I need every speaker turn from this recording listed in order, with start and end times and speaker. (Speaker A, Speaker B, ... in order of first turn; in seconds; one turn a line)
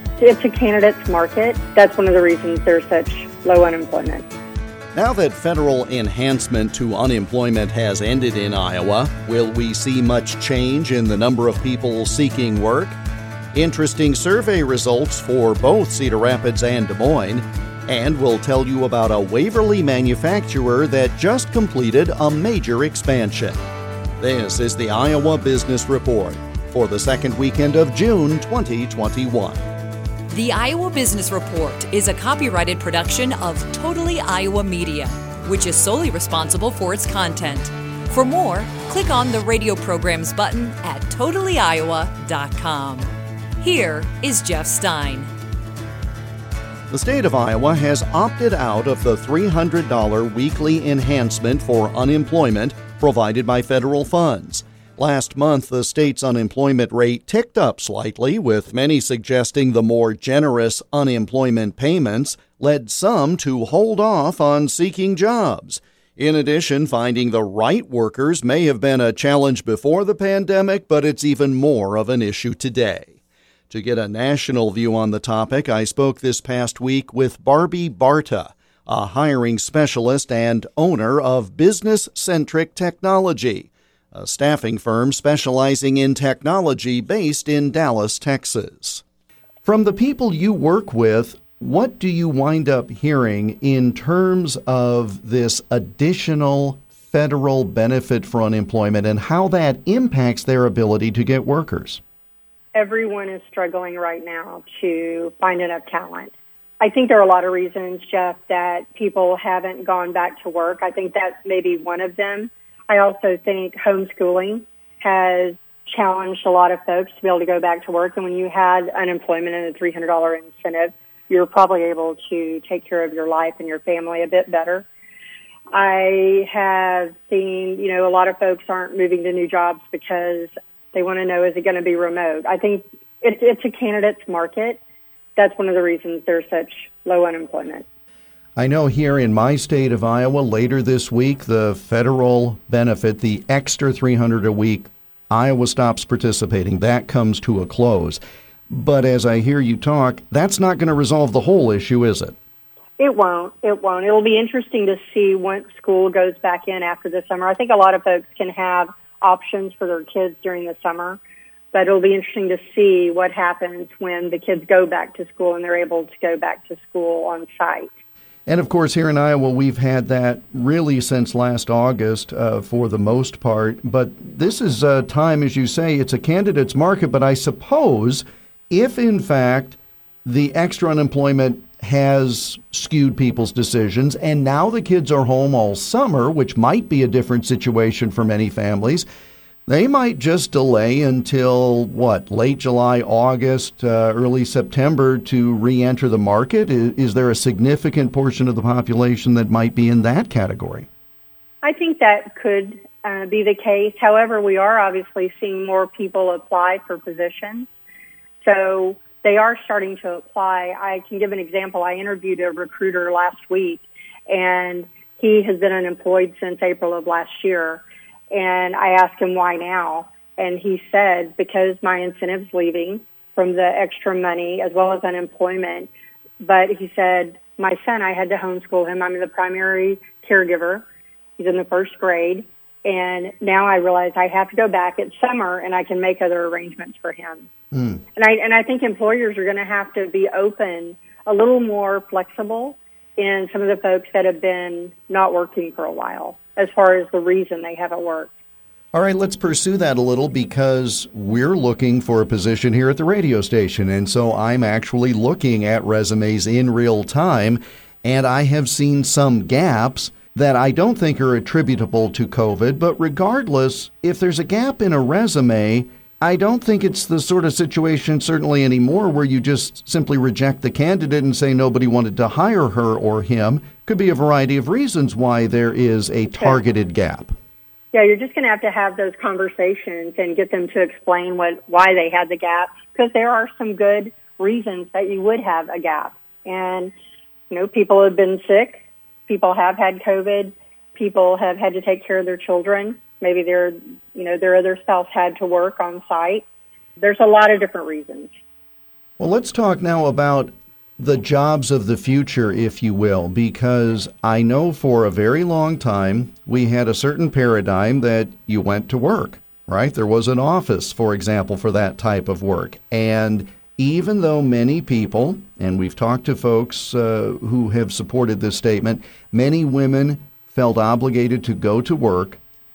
Speaker A: 0.2-4.3
Speaker B: 4.9-13.0
Speaker B: 13.5-23.6
Speaker B: 24.2-29.6
Speaker C: 30.3-43.1
Speaker C: 43.6-45.3
Speaker B: 46.9-73.1
Speaker B: 73.7-89.0
Speaker B: 89.6-102.0
Speaker A: 102.7-124.8
Speaker A: 125.7-134.8
Speaker A: 135.4-137.8
Speaker B: 138.6-152.3
Speaker A: 153.0-161.2
Speaker A: 161.7-167.9
Speaker B: 168.5-189.1
Speaker B: 189.7-200.9
Speaker A: 201.6-207.7
Speaker A: 208.4-225.9
Speaker A: 226.4-230.8
Speaker A: 231.4-237.5
Speaker B: 237.7-238.0
Speaker A: 238.2-248.3
Speaker B: 248.9-277.3
Speaker A: 277.9-286.9
Speaker A: 287.5-296.4
Speaker A: 297.0-298.3
Speaker B: 299.2-322.4